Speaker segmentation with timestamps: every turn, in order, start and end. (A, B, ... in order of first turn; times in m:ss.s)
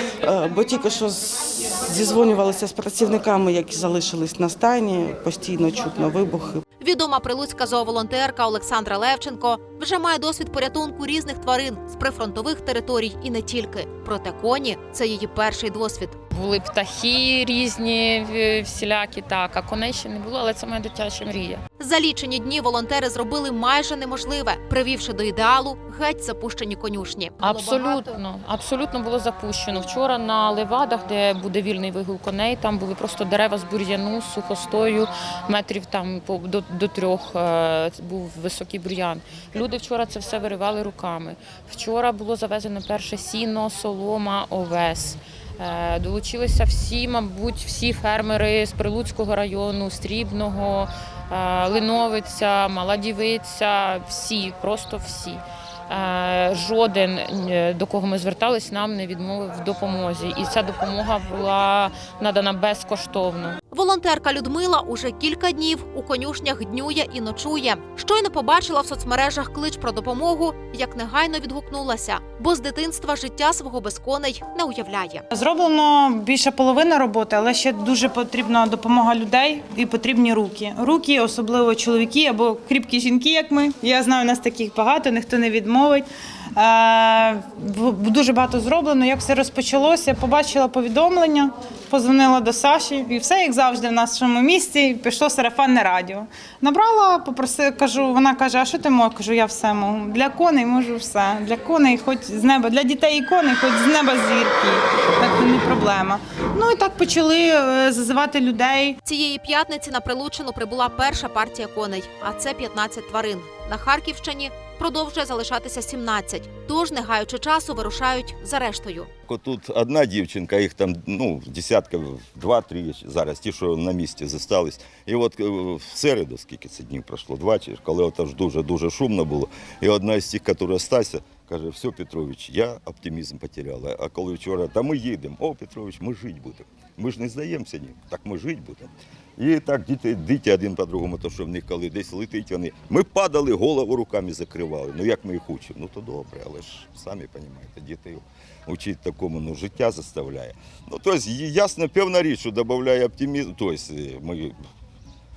0:00.2-0:06.6 A
0:06.8-0:16.2 B
0:16.3-0:21.6 C
0:21.8-0:28.0 B
0:27.4-1:03.6 C
1:03.7-1:15.2 B
1:15.3-1:49.0 D
1:49.0-1:59.1 B
1:59.3-2:34.6 E